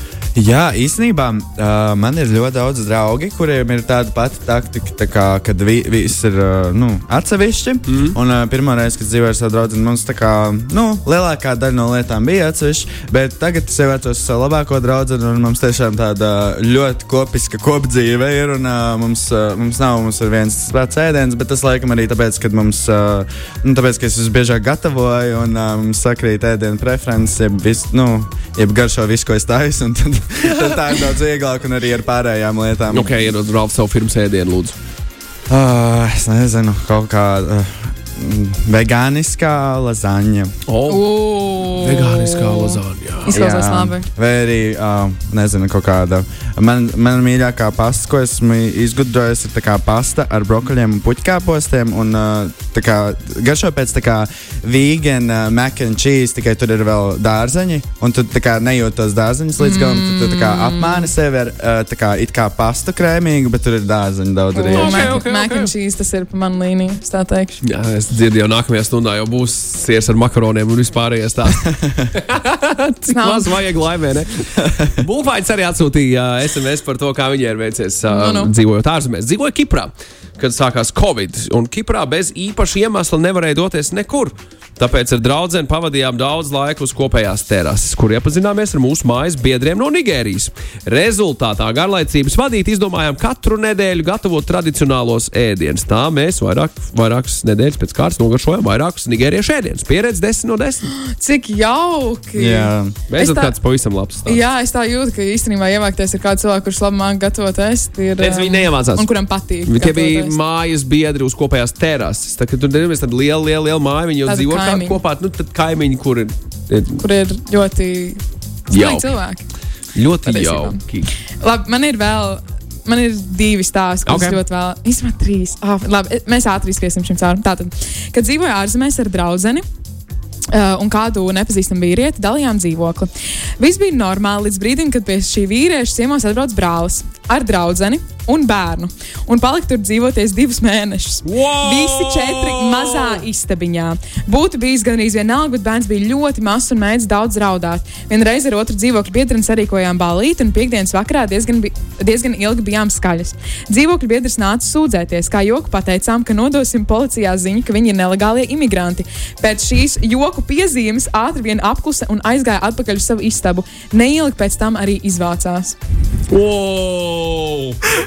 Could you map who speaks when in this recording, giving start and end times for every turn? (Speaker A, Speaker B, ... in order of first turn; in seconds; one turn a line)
Speaker A: 0.3-33.2
Speaker B: 7.9-8.2
Speaker B: 32.9-34.7
Speaker A: 35.5-40.5
Speaker B: 40.7-43.3
Speaker C: 40.9-44.1
Speaker A: 43.3-65.2
Speaker C: 59.6-61.1
Speaker C: 64.5-67.6
Speaker B: 64.7-65.7
Speaker B: 67.6-100.9
Speaker C: 73.1-73.5
Speaker A: 74.6-74.9
Speaker C: 78.1-78.5
Speaker C: 101.0-103.5
Speaker A: 102.4-102.9
Speaker B: 103.1-104.4
Speaker C: 104.2-110.3
Speaker B: 108.2-109.1
Speaker B: 109.6-117.0
Speaker C: 114.2-115.0
Speaker C: 117.0-119.5
Speaker B: 118.7-119.2
Speaker B: 119.9-121.1
Speaker C: 120.2-129.6
Speaker B: 124.1-124.4
Speaker C: 130.5-165.8
Speaker B: 141.2-143.2
Speaker B: 166.3-167.8